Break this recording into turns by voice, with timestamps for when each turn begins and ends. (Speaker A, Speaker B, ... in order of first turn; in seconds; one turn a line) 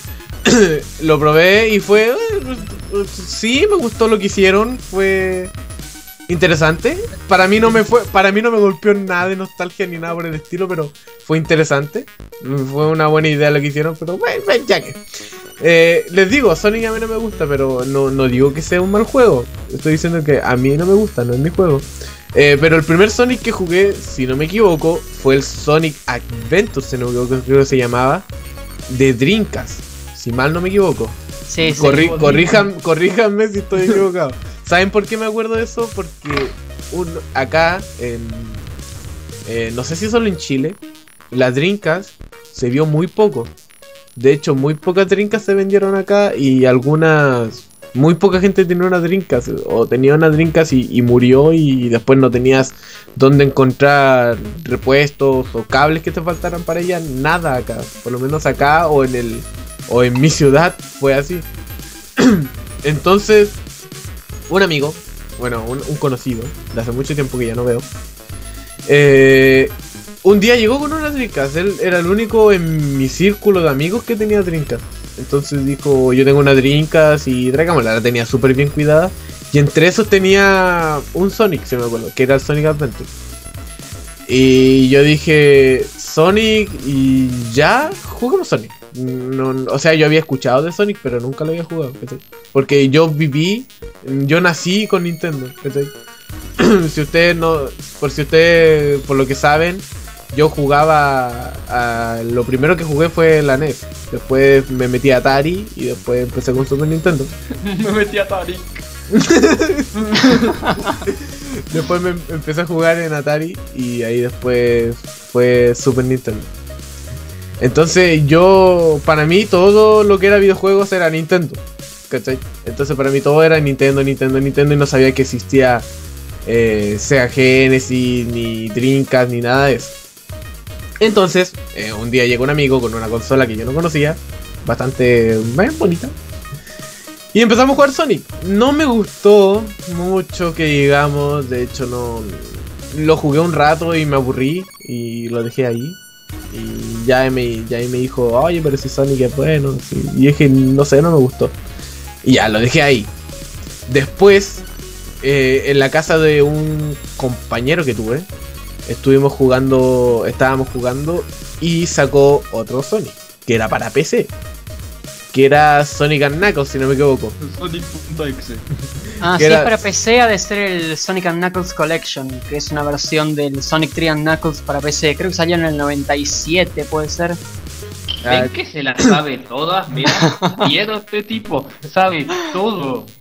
Speaker A: 0.5-5.5
Speaker A: 6.3-15.0
Speaker A: 15.6-28.3
Speaker A: 28.9-31.2
Speaker B: 31.5-32.3
Speaker C: 31.6-32.6
Speaker A: 31.8-38.7
Speaker A: 39.5-40.8
Speaker A: 41.3-43.5
Speaker A: 44.1-61.5
Speaker A: 62.2-63.5
Speaker A: 64.5-67.9
Speaker A: 68.8-83.1
Speaker A: 84.3-95.9
Speaker A: 96.6-107.3
Speaker C: 107.5-108.8
Speaker A: 109.1-110.4
Speaker C: 110.0-110.4
Speaker B: 110.6-111.0
Speaker A: 111.1-116.5
Speaker A: 117.6-125.9
Speaker A: 126.4-129.9
Speaker A: 131.0-136.1
Speaker A: 137.3-151.6
Speaker A: 152.2-153.1
Speaker A: 153.9-154.7
Speaker A: 155.2-158.3
Speaker A: 158.8-164.3
Speaker A: 165.3-167.3
Speaker C: 167.4-168.6
Speaker B: 169.2-177.4
Speaker A: 169.3-169.8
Speaker C: 178.2-183.1
Speaker A: 178.2-179.1
Speaker B: 180.2-180.6